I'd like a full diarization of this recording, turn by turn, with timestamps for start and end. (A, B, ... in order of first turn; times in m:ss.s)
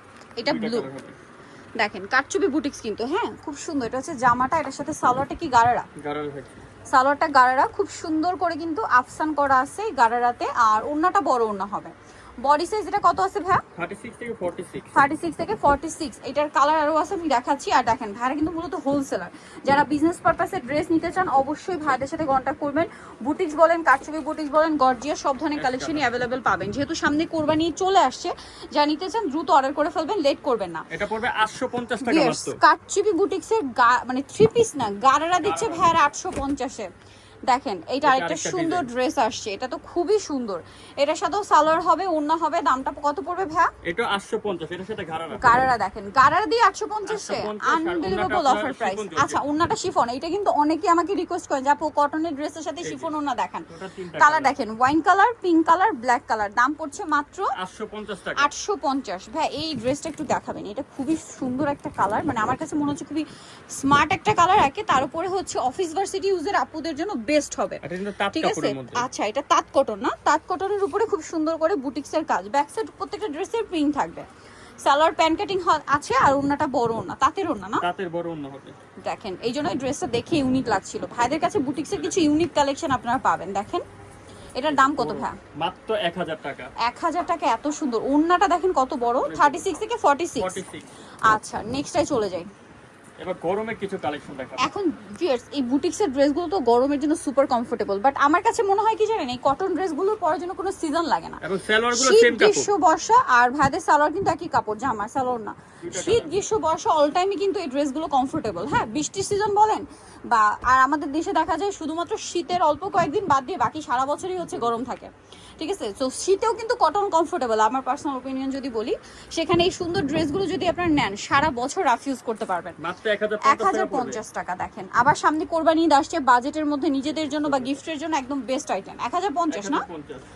0:00.4-0:00.9 A
0:00.5-0:01.2 B
0:01.8-0:05.9 A
0:06.0-0:06.6 B
0:06.9-0:13.6 A
0:13.8-0:14.9 B
0:14.9-0:30.8 A
0:25.6-0:26.1 B
0:30.9-0:32.6 B
0:32.0-0:36.9 A
0:35.4-0:35.9 B
0:37.5-0:43.7 A
0:38.0-0:38.9 B
0:43.8-0:45.7 B
0:45.4-0:53.7 A
0:47.1-0:49.4 B
0:52.8-0:53.1 B
0:53.7-0:54.6 B
0:54.2-0:57.5 A
0:57.6-0:58.5 B
0:58.4-1:14.3 A
1:07.8-1:09.0 B
1:14.8-1:17.8 A
1:17.8-1:18.8 B
1:19.0-1:23.8 A
1:24.6-1:25.4 A
1:24.7-1:26.7 B
1:26.8-1:30.6 A
1:29.2-1:29.7 B
1:30.4-1:30.9 B
1:31.3-1:32.5 A
1:33.2-1:34.7 B
1:34.6-1:41.4 A
1:41.4-1:42.7 B
1:41.9-2:02.8 A
1:45.8-1:46.4 B
1:54.4-1:54.8 B
2:02.8-2:04.2 B
2:03.4-2:09.8 A
2:07.4-2:07.8 B
2:09.5-2:10.3 B